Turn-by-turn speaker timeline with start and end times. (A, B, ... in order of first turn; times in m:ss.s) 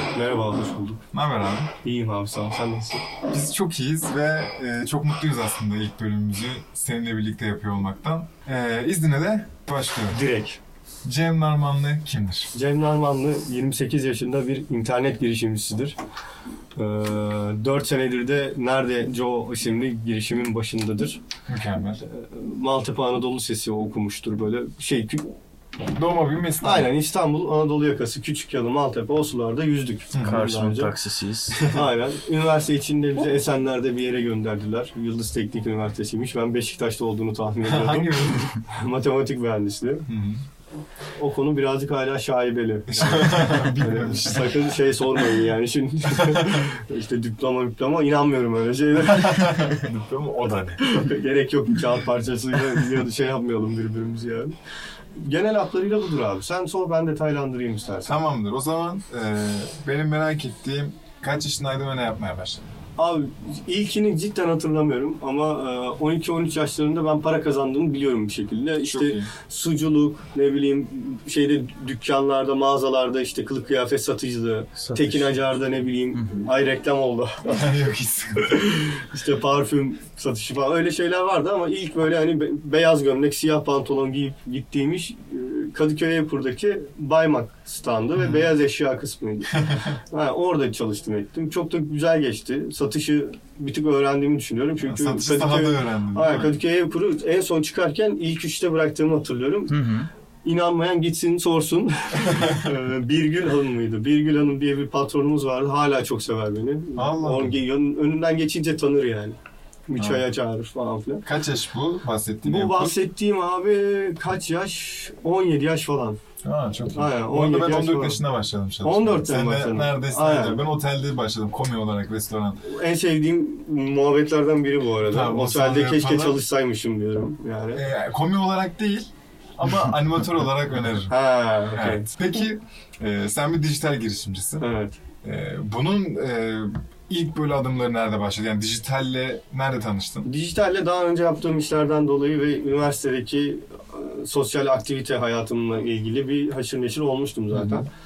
0:00.1-0:01.0 A
0:01.1-0:01.7 B
0:01.8-0:03.1 A
0:03.3-0:10.2 B
0:10.1-0:10.6 A
0:11.0-0:12.5 B
0:12.5-0:16.0 A
0:16.8-0:21.2 A
0:21.5-0:22.0 B
0:22.0-0:25.3 A
0:25.9-0:26.9 B
0:26.6-0:30.9 A
0:30.1-0:30.5 B
0:30.2-0:31.7 C
0:31.6-0:40.0 A
0:37.6-0:38.5 B
0:40.1-0:40.4 B
0:41.2-0:49.8 A
0:42.9-0:44.8 B
0:46.2-0:46.6 B
0:49.0-0:51.0 B
0:50.8-0:54.5 A
0:55.1-0:58.1 A
0:58.0-1:02.6 B
1:03.0-1:17.7 A
1:08.8-1:09.3 B
1:14.8-1:15.3 C
1:16.2-1:16.4 C
1:17.4-1:18.7 B
1:18.4-1:39.8 A
1:28.2-1:28.5 B
1:29.5-1:29.9 B
1:34.8-1:36.6 B
1:39.7-1:40.1 C
1:40.4-1:49.4 A
1:42.3-1:42.7 B
1:47.0-1:47.6 B
1:49.9-1:51.2 A
1:50.0-1:50.2 B
1:51.2-1:53.0 B
1:52.4-1:56.2 A
1:56.4-2:02.6 B
1:56.9-1:58.2 A
1:58.8-2:00.6 A
2:02.6-2:07.8 A
2:05.0-2:06.4 B
2:07.7-2:11.2 B
2:11.1-2:12.1 A
2:11.7-2:14.7 B
2:14.6-2:15.0 A
2:15.2-2:20.3 B
2:20.2-2:27.9 A
2:27.5-2:27.8 B